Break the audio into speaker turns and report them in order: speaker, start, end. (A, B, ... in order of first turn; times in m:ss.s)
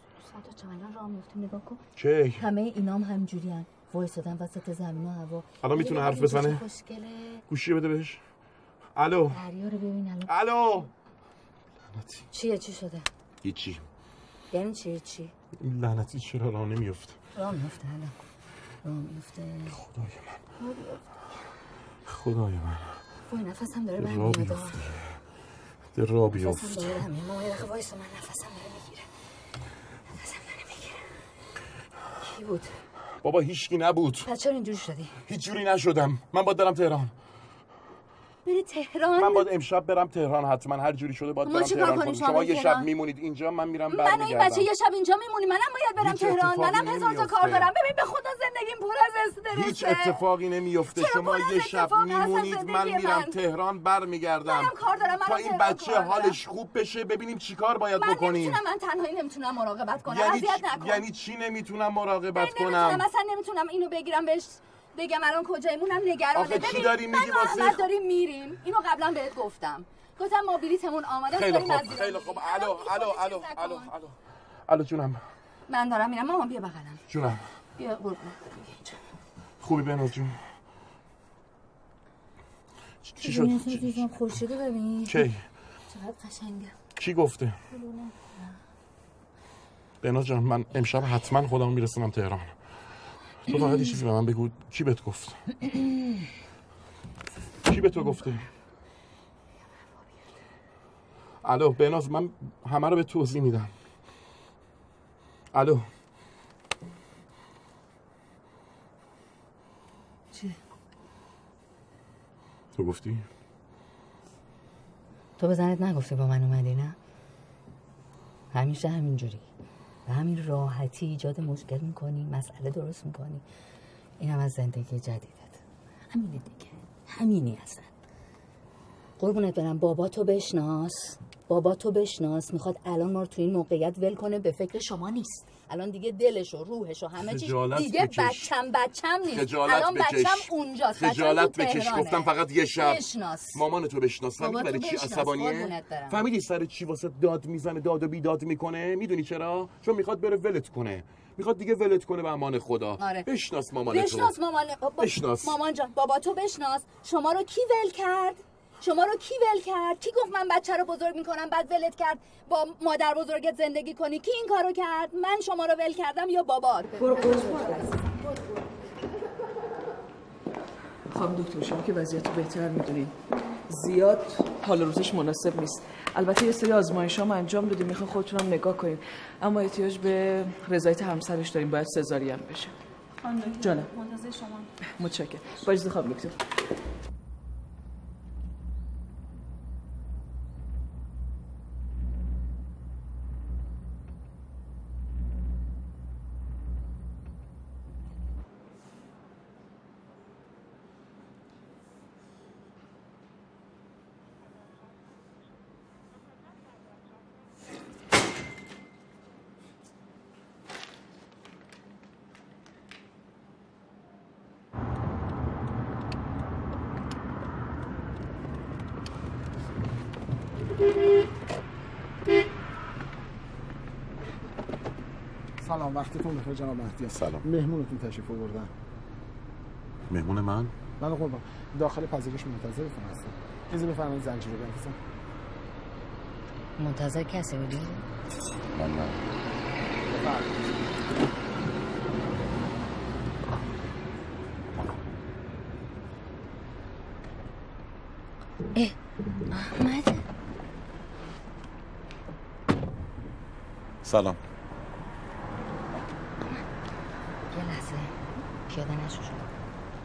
0:00.2-0:01.8 A
0:02.0-0:02.5 B
0:02.4-0:07.4 A
0:05.6-0:06.6 B
0:07.5-0:08.2 B
0:09.0-0:09.4 B
0:09.3-0:10.3 A
0:10.3-0:10.8 B
0:11.9-0:12.2 B
0:12.3-0:13.1 A
0:13.4-0:13.8 B
0:14.5-0:15.3 A
0:15.6-0:17.2 B
0:17.4-0:18.2 A
0:18.8-0:19.8 A
0:19.7-0:20.4 B
0:20.6-0:21.1 A
0:22.1-0:23.0 B
0:23.3-0:24.8 A
0:24.0-0:25.2 B
0:25.9-0:27.0 B
0:26.3-0:29.1 A
0:30.1-0:31.0 A
0:32.2-0:32.8 A
0:33.2-0:34.3 B
0:34.2-0:35.2 A
0:35.3-0:37.1 B
0:38.4-0:39.5 A
0:39.2-0:44.7 B
0:41.4-0:42.9 A
0:43.9-0:50.2 A
0:46.0-0:47.7 B
0:49.5-0:58.6 B
0:50.9-0:53.4 A
0:54.4-0:56.4 A
0:58.0-1:01.0 A
1:00.1-1:03.1 B
1:02.4-1:13.9 A
1:06.3-1:07.9 B
1:11.3-1:14.2 B
1:14.7-1:15.2 B
1:15.7-1:17.0 A
1:17.1-1:17.5 B
1:17.8-1:19.0 A
1:19.6-1:20.4 B
1:23.0-1:24.1 B
1:23.2-1:25.3 A
1:25.1-1:25.4 B
1:25.9-1:26.8 A
1:27.0-1:27.6 B
1:27.7-1:28.6 A
1:30.0-1:32.8 B
1:33.5-1:35.6 B
1:33.5-1:34.0 A
1:37.7-1:38.5 B
1:39.8-1:40.3 A
1:41.4-1:43.7 B
1:45.5-1:45.9 B
1:50.3-1:50.6 A
1:52.8-1:53.3 B
1:55.4-1:57.0 A
1:58.5-1:59.5 A
2:00.1-2:03.4 A
2:04.2-2:07.9 A
2:09.2-2:23.6 A
2:17.2-2:18.5 B
2:19.3-2:34.4 B
2:24.4-2:26.2 A
2:33.0-2:33.3 A
2:33.9-2:47.8 A
2:35.0-2:35.6 B
2:47.0-2:48.0 C
2:51.1-3:02.8 C
3:03.2-3:04.5 A
3:03.6-3:04.0 C
3:05.0-3:06.4 C
3:45.6-3:48.7 D
3:47.1-3:47.5 B
3:50.1-3:50.7 B
3:51.0-3:55.0 D
3:56.8-3:58.0 A
4:00.1-4:00.5 D
4:09.5-4:10.2 A
4:14.0-4:14.4 B
4:16.4-4:16.7 A
4:17.5-4:19.6 A